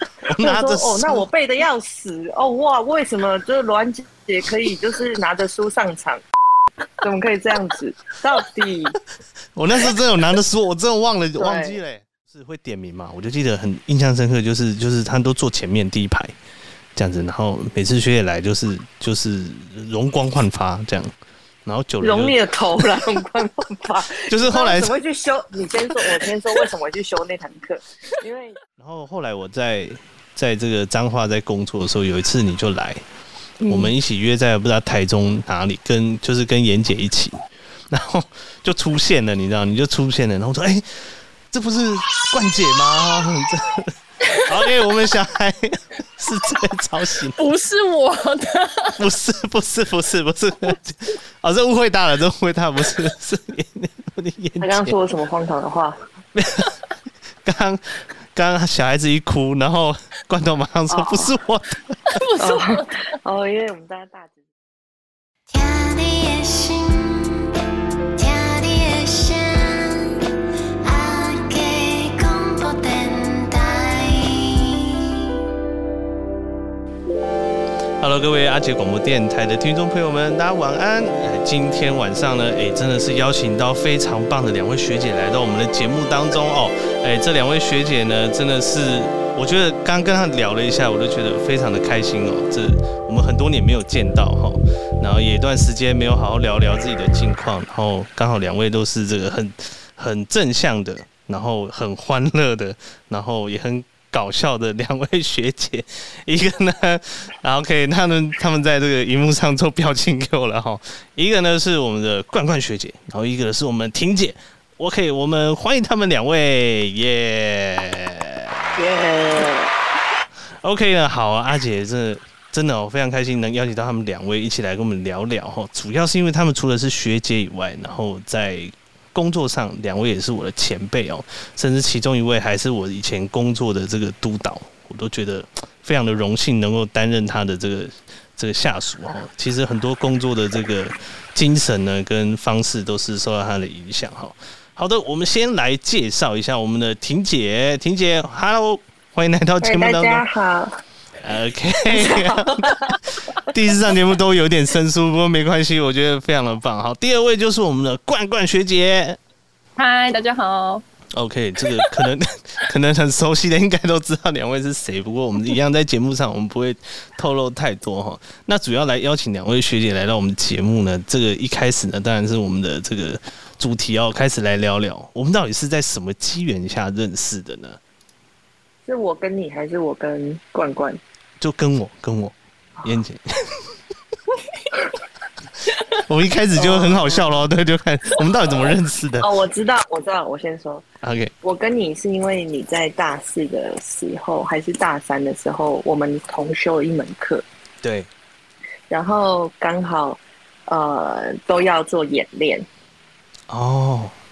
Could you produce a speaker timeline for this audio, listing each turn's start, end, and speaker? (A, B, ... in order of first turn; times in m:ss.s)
0:00.3-0:01.2 A
0:00.4-0:06.2 B
0:07.0-0:09.0 B
0:09.5-0:16.4 A
0:11.4-0:11.8 B
0:17.0-0:21.1 A
0:21.6-0:22.4 A
0:22.0-0:28.6 B
0:24.2-0:24.9 A
0:28.8-0:33.0 A
0:33.6-0:33.9 C
0:33.7-0:47.4 A
0:44.3-0:44.5 C
0:47.4-0:49.0 C
0:49.0-0:54.9 A
0:54.6-0:56.0 B
0:56.3-0:56.7 A
0:57.4-1:02.2 A
1:00.9-1:01.3 B
1:02.1-1:02.9 C
1:02.4-1:04.4 B
1:05.5-1:07.5 D
1:08.2-1:10.2 D
1:10.8-1:15.2 D
1:18.0-1:58.7 A
1:58.8-1:59.7 B
2:00.6-2:30.2 A
2:29.6-2:30.8 B
2:31.2-2:39.2 A
2:31.9-2:33.0 B
2:39.8-2:40.8 C
2:41.1-2:57.8 A
2:41.6-2:42.0 C
2:58.8-3:01.0 B
3:01.4-3:03.7 A
3:06.0-3:09.3 A
3:06.6-3:07.2 B
3:09.2-3:10.8 B
3:11.0-3:11.3 A
3:11.4-3:17.4 B
3:17.8-3:18.1 A
3:18.9-3:22.6 B
3:23.5-3:24.1 A